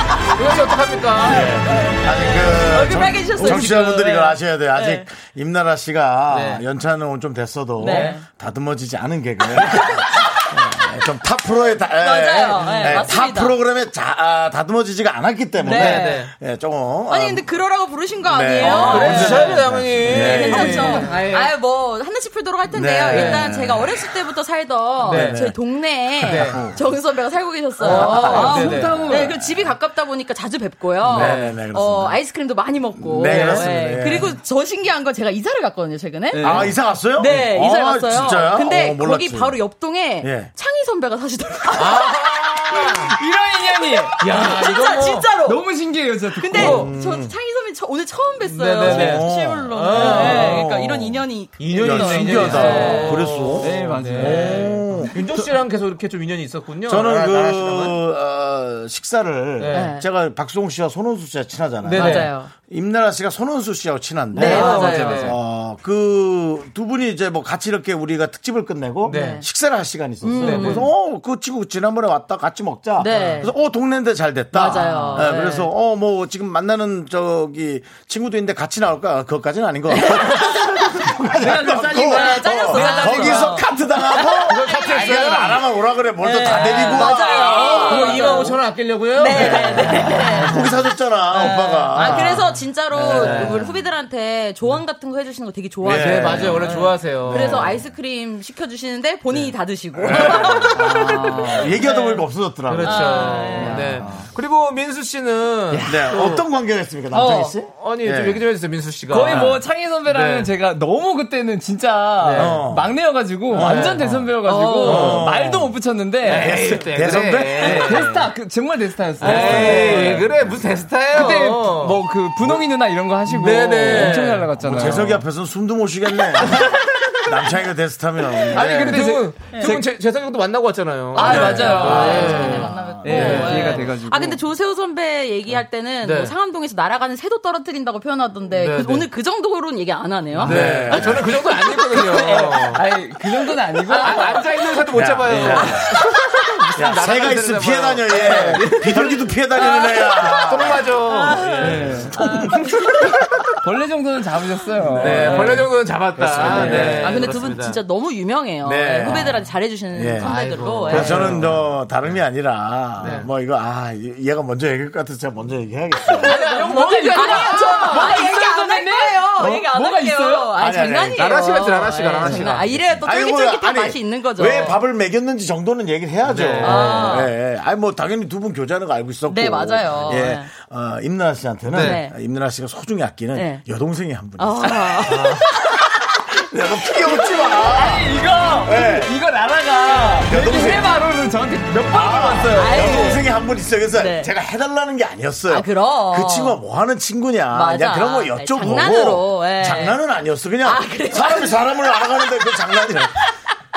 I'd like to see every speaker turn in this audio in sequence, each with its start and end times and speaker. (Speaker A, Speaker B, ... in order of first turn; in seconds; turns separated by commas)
Speaker A: 0.3-1.5, Speaker B: 1.2-17.5, Speaker C: 1.2-5.1, Speaker D: 3.5-3.8, Speaker A: 6.3-6.6, Speaker C: 7.8-8.2, Speaker C: 9.6-10.4, Speaker C: 11.9-13.6, Speaker C: 15.6-16.2, Speaker A: 15.6-16.3, Speaker C: 17.1-43.1, Speaker B: 18.2-20.9, Speaker A: 18.6-21.5, Speaker D: 18.9-19.2, Speaker D: 20.5-21.2, Speaker B: 22.7-24.1, Speaker A: 23.1-23.5, Speaker A: 25.0-25.5, Speaker B: 25.1-25.6, Speaker A: 26.2-26.6, Speaker B: 26.4-26.8, Speaker A: 27.8-29.3, Speaker D: 27.8-29.4, Speaker B: 27.9-28.4, Speaker B: 31.0-32.2, Speaker A: 31.1-31.6, Speaker B: 33.0-34.4, Speaker A: 33.2-33.7, Speaker D: 36.3-36.8, Speaker B: 36.4-39.6, Speaker B: 40.2-40.5, Speaker A: 41.7-43.1, Speaker D: 43.1-44.4, Speaker A: 44.2-45.3, Speaker C: 44.2-45.6, Speaker D: 45.4-46.9, Speaker C: 46.3-53.5, Speaker A: 46.5-46.9, Speaker B: 46.5-47.3, Speaker A: 48.4-50.6, Speaker B: 48.8-51.2, Speaker D: 50.0-50.6, Speaker A: 51.6-58.0, Speaker B: 51.8-55.1, Speaker D: 52.3-55.1, Speaker B: 56.9-88.1, Speaker A: 59.6-59.9, Speaker C: 59.7-60.0, Speaker A: 61.8-62.3, Speaker C: 61.9-62.5, Speaker C: 64.3-65.3, Speaker A: 64.4-65.3, Speaker D: 64.4-65.3, Speaker A: 69.0-69.4, Speaker C: 69.0-69.4, Speaker C: 70.2-70.9, Speaker A: 70.4-70.9, Speaker C: 73.0-73.5, Speaker A: 73.1-73.4, Speaker C: 74.5-75.7, Speaker D: 74.7-75.4, Speaker C: 80.0-80.8, Speaker D: 81.3-83.6, Speaker C: 81.6-85.3, Speaker A: 84.4-85.6, Speaker C: 86.2-88.6, Speaker A: 86.5-90.6, Speaker D: 87.8-88.4, Speaker C: 89.1-102.2, Speaker B: 89.3-93.7, Speaker D: 89.6-90.4, Speaker D: 91.9-92.3, Speaker A: 92.0-92.3, Speaker D: 92.9-93.5, Speaker A: 93.0-93.6, Speaker B: 95.8-96.8, Speaker A: 95.8-97.8, Speaker B: 97.3-97.7, Speaker D: 97.3-97.6, Speaker B: 100.0-103.4, Speaker A: 100.2-100.6, Speaker D: 100.7-101.9, Speaker A: 102.7-106.4, Speaker C: 102.8-103.9, Speaker D: 103.5-104.2, Speaker D: 105.7-106.0, Speaker B: 105.8-108.4, Speaker D: 107.1-107.5, Speaker A: 107.7-110.5, Speaker D: 109.1-120.4, Speaker B: 109.3-109.6, Speaker A: 112.2-112.5, Speaker B: 112.3-112.9, Speaker B: 113.5-114.0, Speaker A: 113.5-114.3, Speaker C: 114.5-115.2, Speaker A: 114.8-115.2, Speaker B: 114.8-115.7, Speaker A: 116.2-118.3, Speaker B: 116.3-118.1, Speaker A: 119.2-122.0, Speaker B: 119.2-120.2, Speaker D: 121.1-125.2, Speaker A: 123.2-124.5, Speaker B: 124.6-129.1, Speaker D: 128.4-129.9, Speaker A: 128.5-133.8, Speaker D: 131.1-134.4, Speaker C: 131.2-141.1, Speaker B: 131.3-132.1, Speaker A: 135.5-136.3, Speaker A: 138.5-139.1, Speaker A: 140.4-142.8, Speaker B: 140.4-141.3, Speaker D: 140.4-144.7, Speaker A: 143.9-151.9, Speaker B: 144.9-145.9, Speaker D: 145.3-145.8, Speaker B: 146.8-150.9, Speaker C: 149.5-153.1, Speaker D: 151.4-152.3, Speaker B: 151.4-152.9, Speaker A: 152.5-153.2, Speaker D: 153.6-155.8, Speaker B: 155.0-155.6, Speaker A: 155.0-157.8, Speaker B: 156.2-157.1, Speaker D: 156.3-157.2, Speaker C: 156.5-161.4, Speaker B: 158.6-160.3, Speaker A: 160.2-162.1, Speaker B: 160.8-166.4, Speaker D: 160.9-161.3, Speaker A: 163.0-163.3, Speaker D: 166.1-170.6, Speaker C: 166.2-174.8, Speaker A: 166.8-168.1, Speaker B: 170.5-171.3, Speaker A: 171.1-172.8, Speaker D: 172.2-172.5, Speaker B: 172.8-188.1, Speaker A: 176.2-177.2, Speaker C: 176.6-177.3, Speaker C: 179.3-180.5, Speaker A: 181.7-182.0, Speaker C: 181.8-182.1, Speaker C: 183.3-183.6, Speaker C: 184.4-185.5, Speaker A: 185.1-185.4, Speaker D: 187.5-193.2, Speaker B: 188.6-189.2, Speaker B: 190.2-190.9, Speaker B: 191.9-203.2, Speaker C: 192.5-193.3, Speaker C: 193.9-194.3, Speaker C: 195.5-196.6, Speaker C: 197.5-200.0, Speaker C: 200.6-202.5